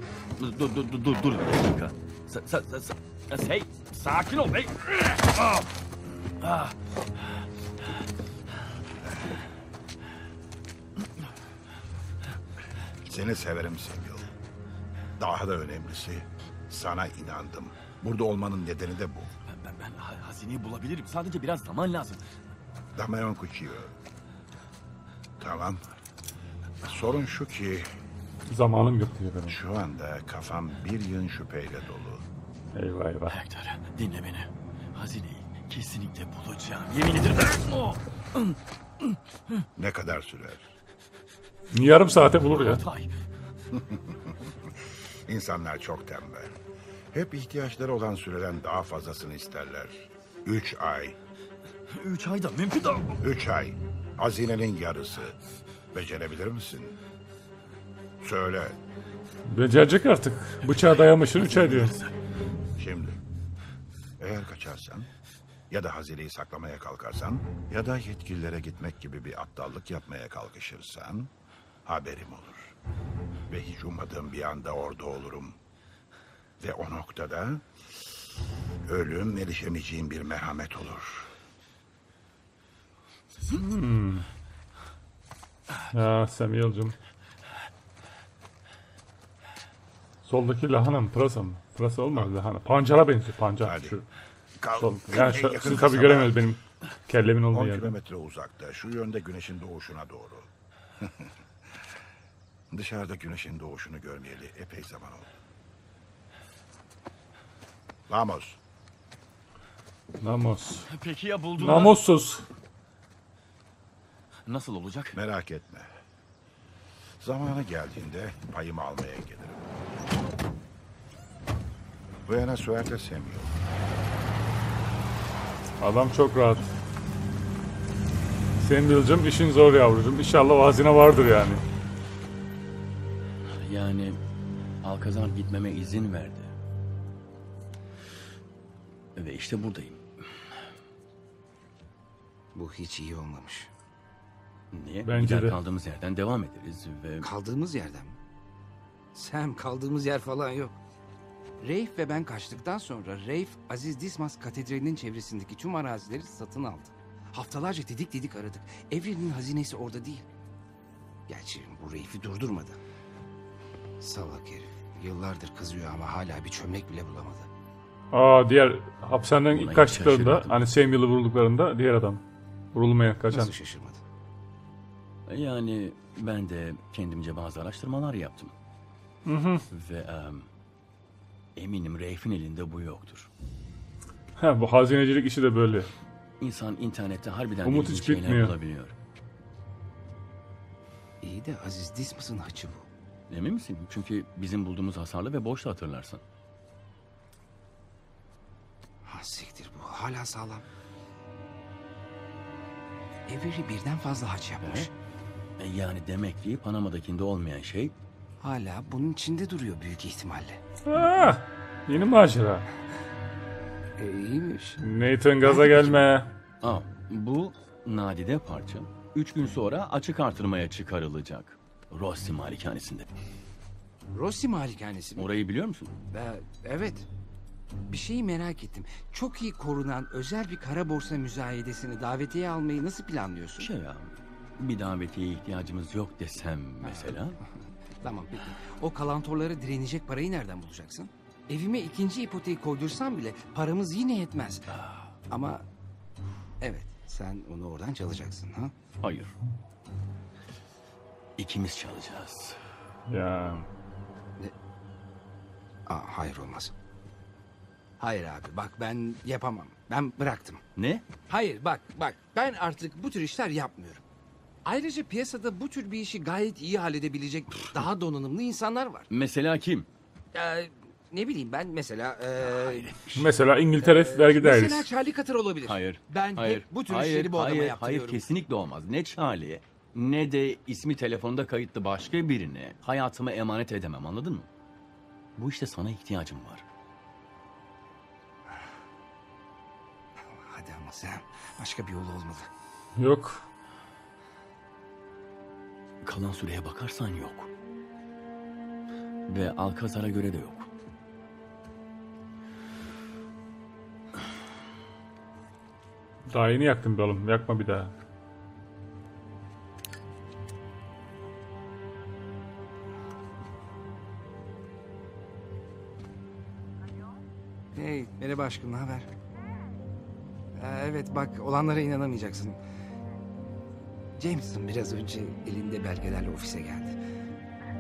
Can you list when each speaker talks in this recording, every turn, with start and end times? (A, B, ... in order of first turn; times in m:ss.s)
0:00.4-0:05.7 A
0:06.4-0:06.8 A
0:13.0-0:14.3 B
0:15.2-0:19.3 B
0:19.5-0:22.2 A
0:22.9-0:23.9 B
0:25.4-0:26.0 B
0:26.8-0:27.9 B
0:28.5-0:29.6 C
0:29.5-0:32.2 B
0:32.7-0:33.4 C
0:33.3-0:39.6 A
0:39.8-0:40.7 B
0:41.7-0:42.8 C
0:42.2-0:43.1 A
0:43.7-0:46.6 B
0:47.1-0:51.2 B
0:51.9-0:53.2 A
0:53.2-0:55.4 B
0:55.9-0:57.0 B
0:58.2-0:58.8 B
0:59.5-1:02.0 C
1:01.4-1:02.1 A
1:02.8-1:03.2 B
1:04.2-1:05.1 B
1:05.7-1:11.3 B
1:11.8-1:12.8 B
1:13.5-1:15.6 B
1:16.6-1:17.7 B
1:18.9-1:21.3 B
1:23.6-1:24.3 C
1:25.9-1:27.0 C
1:30.2-1:34.1 C
1:33.6-1:34.0 B
1:34.6-1:36.4 B
1:34.8-1:38.0 C
1:37.5-1:41.3 B
1:42.7-1:45.3 B
1:48.1-1:48.6 B
1:50.2-1:50.9 C
1:50.9-1:52.0 A
1:51.6-1:52.4 C
1:54.4-1:55.2 A
1:55.1-1:55.9 B
1:57.2-1:59.8 B
2:02.3-2:03.6 B
2:05.8-2:06.7 C
2:08.6-2:11.6 C
2:13.5-2:14.2 A
2:14.8-2:16.5 A
2:19.2-2:20.5 A
2:22.6-2:23.7 D
2:24.7-2:27.3 A
2:25.0-2:25.6 C
2:27.2-2:28.2 D
2:29.1-2:30.8 D
2:31.6-2:40.3 D
2:41.3-2:42.8 D
2:44.0-2:47.5 D
2:48.1-2:52.2 C
2:49.5-2:50.6 A
2:52.7-2:53.5 C
2:53.3-2:54.0 D
2:55.3-2:58.5 A
2:59.3-2:59.7 C
2:59.7-3:00.5 A
3:01.6-3:03.3 A
3:04.4-3:05.9 C
3:06.4-3:08.9 A
3:07.6-3:08.6 C
3:11.2-3:12.9 D
3:13.3-3:16.2 A
3:19.0-3:20.7 D
3:23.3-3:24.9 D
3:24.6-3:24.9 A
3:25.6-3:28.0 A
3:28.4-3:30.6 D
3:30.9-3:32.7 C
3:34.0-3:34.8 D
3:34.8-3:36.3 C
3:35.4-3:36.1 D
3:36.6-3:43.1 A
3:44.1-3:45.3 D
3:45.2-3:45.9 A
3:46.1-3:47.1 D
3:47.9-3:53.7 D
3:53.6-3:57.4 A
3:56.8-3:57.2 D
3:58.0-4:04.8 D
4:04.7-4:05.1 A
4:05.3-4:05.7 D
4:06.6-4:08.7 D
4:09.0-4:09.3 A
4:11.4-4:12.6 A
4:13.1-4:13.7 C
4:15.9-4:16.7 D
4:18.0-4:20.6 D
4:20.8-4:21.0 A
4:21.3-4:24.0 D
4:24.6-4:29.1 D
4:29.1-4:29.9 A
4:30.3-4:33.3 D
4:32.4-4:33.0 A
4:33.2-4:34.9 C
4:33.8-4:38.2 D
4:35.6-4:44.5 A
4:45.4-4:46.6 A
4:50.3-4:52.5 D
4:53.0-4:53.5 C
4:56.0-4:57.5 A
4:59.3-5:00.7 A
5:06.3-5:07.9 C
5:17.7-5:19.1 D
5:20.5-5:22.6 D
5:24.2-5:27.0 D